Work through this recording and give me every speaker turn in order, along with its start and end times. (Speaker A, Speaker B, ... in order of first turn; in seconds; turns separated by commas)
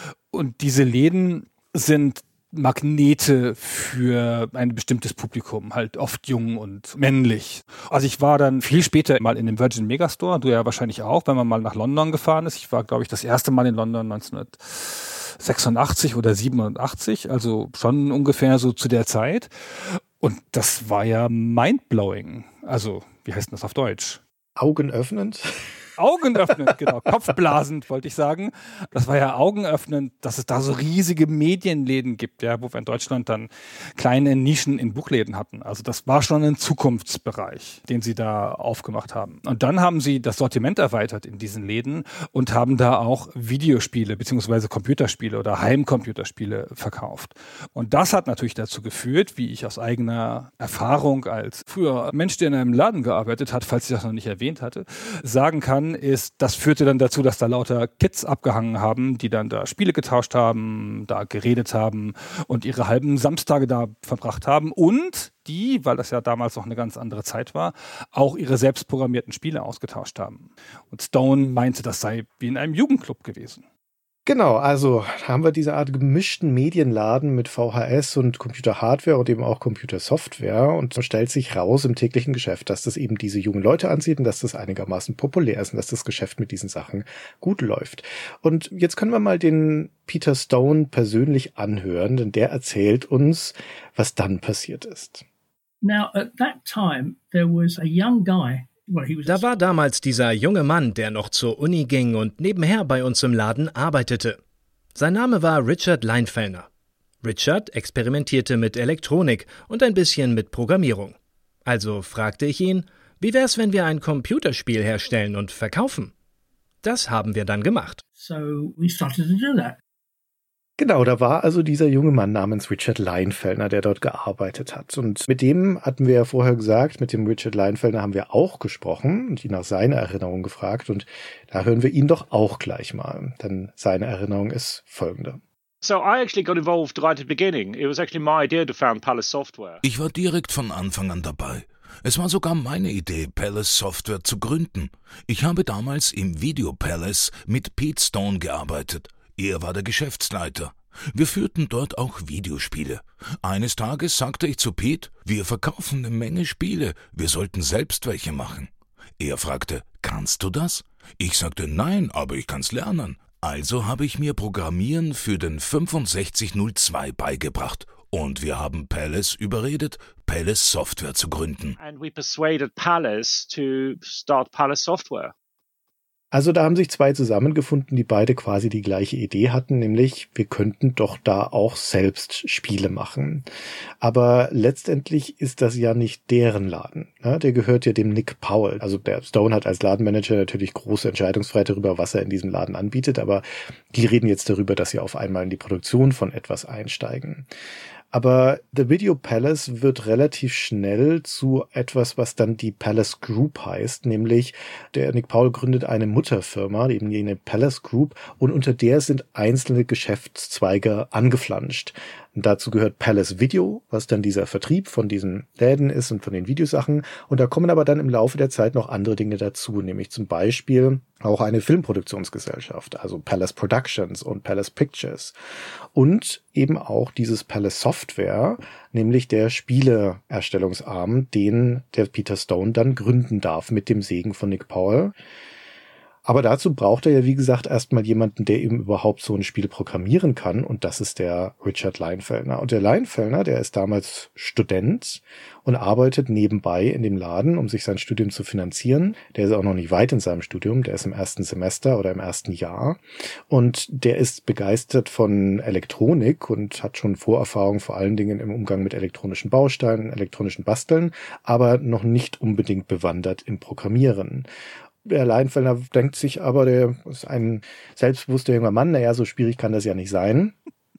Speaker A: 0.3-24.2, Speaker B: 24.6-25.7, Speaker A: 26.0-73.6, Speaker B: 74.2-95.2, Speaker C: 95.8-99.4, Speaker D: 99.2-104.4, Speaker D: 104.9-106.7, Speaker D: 107.2-116.1, Speaker D: 116.8-118.0, Speaker C: 118.2-119.8, Speaker B: 120.8-135.4, Speaker E: 135.8-139.8, Speaker F: 139.8-171.8, Speaker E: 171.8-175.3, Speaker B: 176.3-183.5, Speaker B: 184.0-197.5, Speaker B: 198.1-225.3, Speaker B: 225.9-235.1, Speaker B: 236.2-264.5, Speaker B: 265.0-270.5